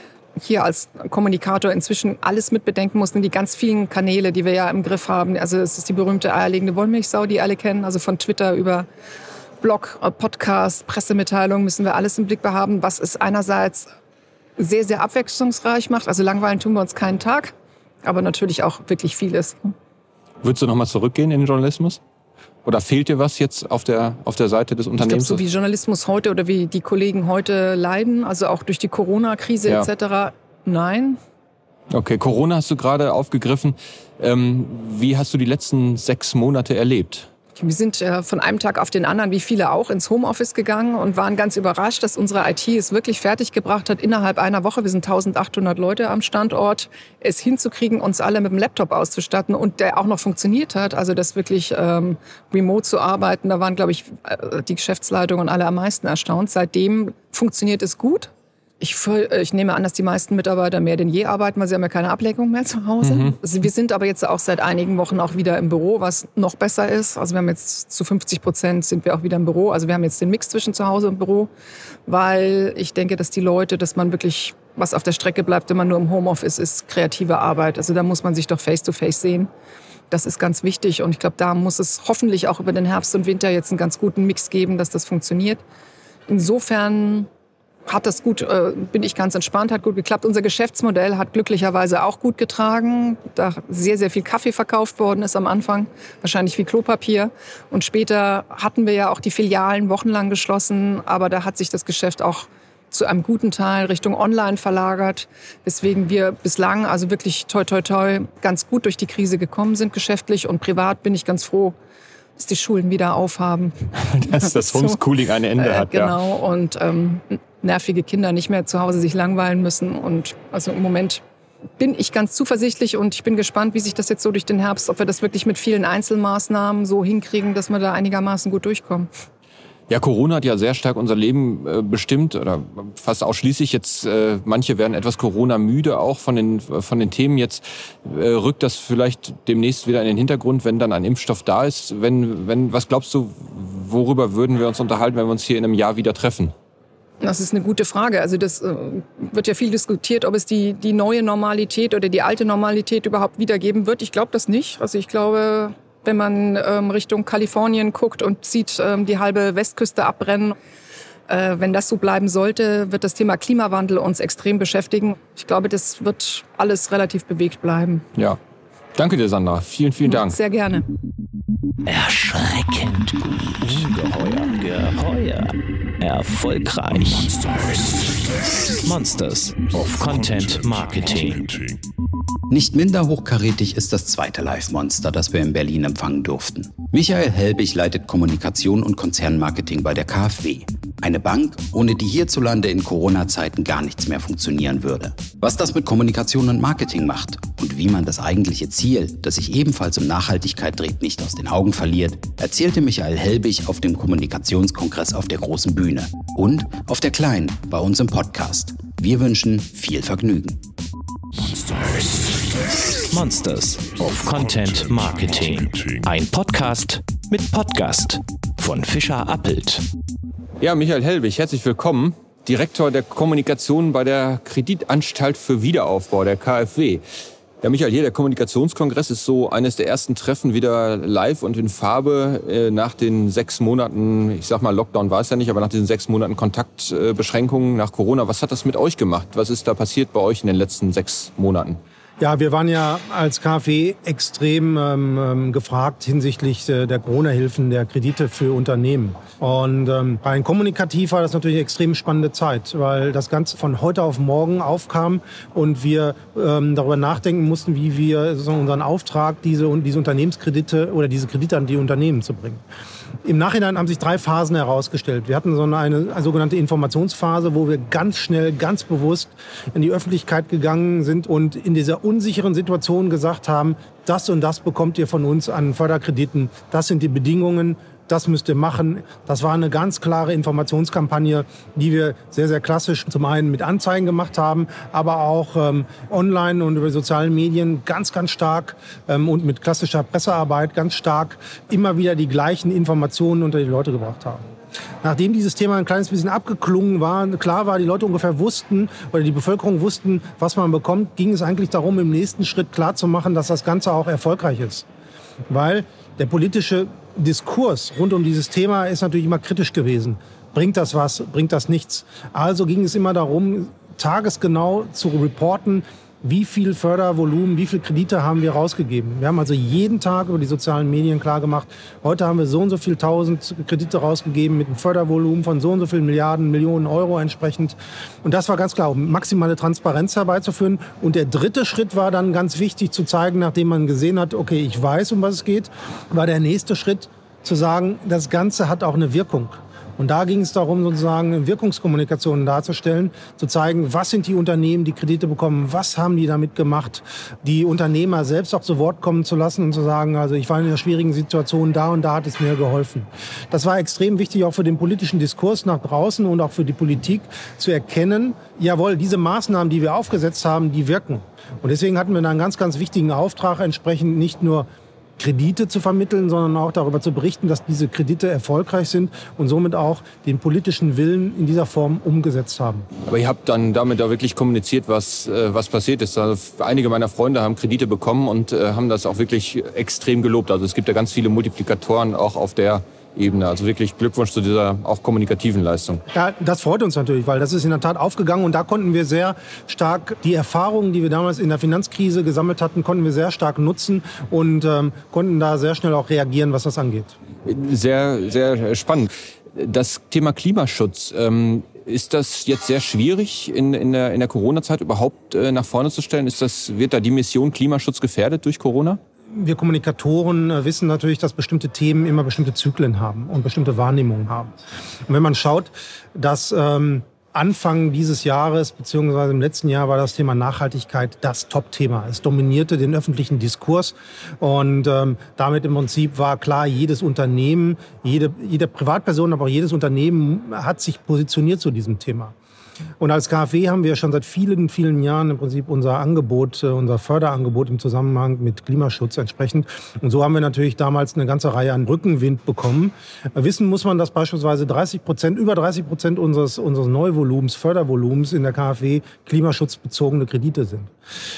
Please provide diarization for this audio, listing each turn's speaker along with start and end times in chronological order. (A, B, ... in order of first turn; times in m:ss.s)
0:00.4-0:08.9 A
0:09.6-0:13.9 A
0:14.6-0:17.5 A
0:18.0-0:19.7 A
0:20.4-0:22.0 B
0:22.6-0:25.4 B
0:25.0-0:31.2 A
0:31.9-0:37.3 B
0:37.6-1:11.5 A
1:03.0-1:03.4 B
1:12.1-1:19.5 A
1:20.1-1:25.6 A
1:26.3-1:27.3 A
1:27.9-1:51.8 A
1:52.4-1:55.0 A
1:54.0-1:56.2 B
1:55.6-2:01.2 A
2:01.8-2:09.1 A
2:09.9-2:26.5 B
2:27.2-2:40.5 A
2:41.3-2:48.0 A
2:48.9-2:50.3 B
2:50.0-2:50.8 A
2:51.8-3:01.6 C
3:02.5-3:30.6 D
3:33.0-3:39.8 C
3:40.6-3:47.0 B
3:47.6-4:01.8 B
4:02.2-4:22.6 E
4:23.2-4:54.4 E
4:55.0-5:04.8 E
5:05.5-6:04.7 E
6:05.2-6:12.9 E
6:13.0-6:26.0 B
6:26.1-6:37.2 E
6:37.4-6:49.0 B
6:49.3-6:54.5 E
6:55.1-7:12.3 E
7:13.0-7:30.9 E